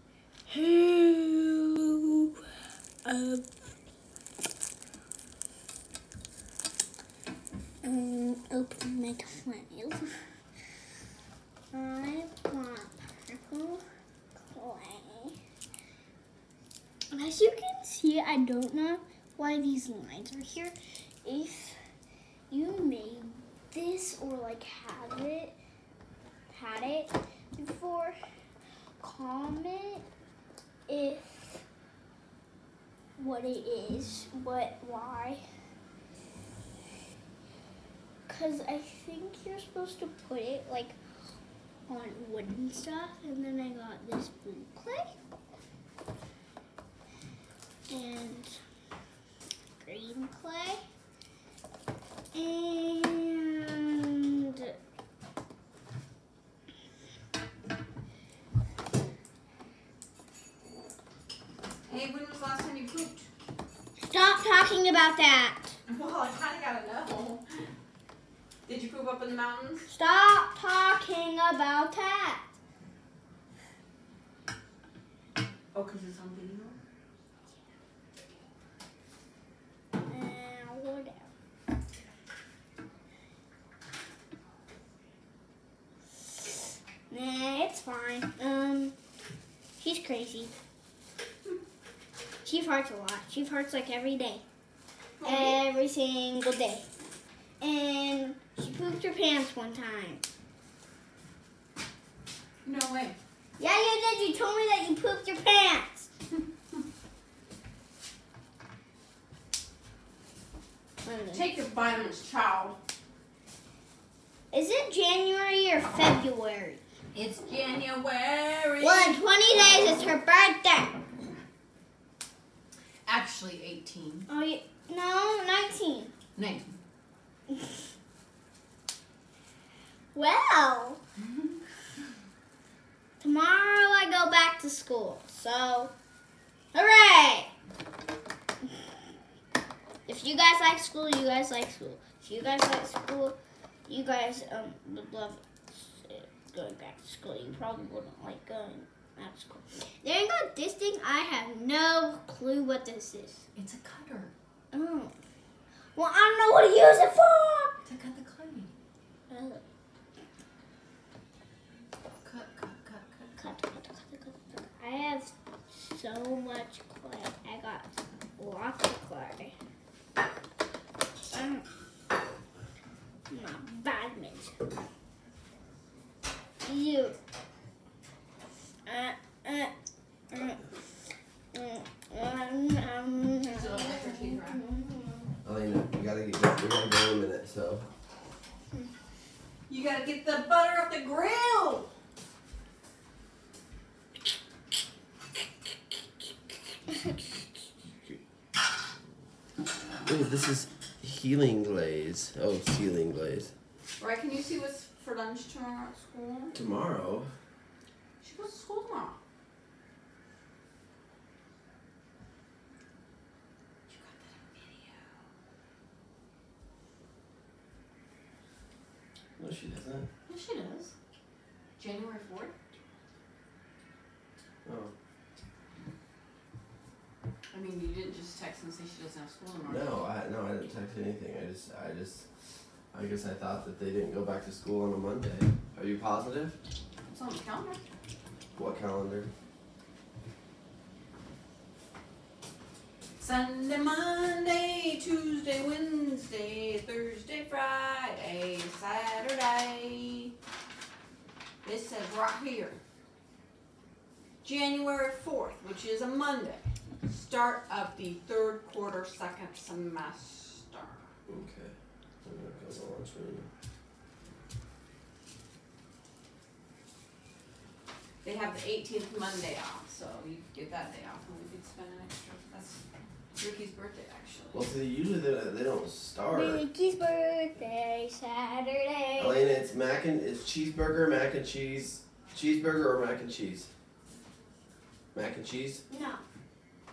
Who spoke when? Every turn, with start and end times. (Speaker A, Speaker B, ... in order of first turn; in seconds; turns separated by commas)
Speaker A: 0.5-2.3, Speaker A: 3.0-3.5, Speaker A: 7.8-10.2, Speaker A: 11.7-13.8, Speaker A: 14.3-15.4, Speaker A: 17.1-21.8, Speaker A: 22.5-25.6, Speaker A: 26.5-28.2, Speaker A: 29.0-30.1, Speaker A: 30.9-31.6, Speaker A: 33.2-35.4, Speaker A: 38.3-41.0, Speaker A: 41.9-45.1, Speaker A: 47.9-48.6, Speaker A: 49.8-50.8, Speaker A: 52.3-54.8, Speaker B: 61.9-63.3, Speaker A: 64.0-65.8, Speaker B: 65.9-67.4, Speaker B: 68.7-69.9, Speaker A: 69.9-72.5, Speaker B: 75.7-76.8, Speaker A: 80.1-81.3, Speaker A: 87.1-89.0, Speaker A: 89.8-90.5, Speaker A: 92.4-94.4, Speaker B: 95.2-95.6, Speaker A: 95.2-96.8, Speaker A: 97.6-100.2, Speaker B: 102.6-103.2, Speaker A: 103.6-106.1, Speaker A: 111.0-111.5, Speaker B: 111.3-112.8, Speaker A: 114.5-116.8, Speaker B: 117.1-119.2, Speaker A: 118.8-121.0, Speaker B: 123.1-124.3, Speaker A: 124.3-126.1, Speaker B: 126.4-126.8, Speaker A: 130.1-131.0, Speaker A: 133.2-135.9, Speaker A: 136.7-137.5, Speaker A: 140.1-153.4, Speaker B: 153.6-154.3, Speaker A: 154.7-155.1, Speaker A: 155.9-157.8, Speaker B: 157.8-158.7, Speaker A: 159.3-159.6, Speaker B: 162.2-163.4, Speaker A: 163.4-169.6, Speaker A: 171.3-171.7, Speaker A: 173.3-174.6, Speaker A: 176.6-177.2, Speaker A: 178.9-179.7, Speaker A: 180.3-180.6, Speaker A: 181.5-185.3, Speaker B: 183.5-184.7, Speaker C: 185.4-187.9, Speaker B: 189.7-191.9, Speaker C: 200.0-203.5, Speaker B: 204.0-206.6, Speaker C: 206.5-207.3, Speaker B: 208.2-209.2, Speaker B: 213.9-215.1, Speaker C: 219.4-220.1, Speaker B: 220.3-220.9, Speaker B: 221.8-222.5, Speaker C: 224.7-224.9, Speaker B: 227.5-230.1, Speaker C: 229.7-232.2, Speaker C: 232.9-236.6, Speaker B: 237.1-237.8, Speaker C: 238.6-239.3, Speaker B: 243.2-250.3, Speaker B: 251.6-252.8, Speaker B: 254.4-261.1, Speaker C: 261.3-263.5, Speaker B: 268.2-272.8, Speaker B: 273.4-274.7, Speaker C: 274.5-276.6, Speaker A: 276.3-279.4, Speaker C: 279.2-283.7, Speaker C: 285.1-285.8, Speaker A: 285.9-286.2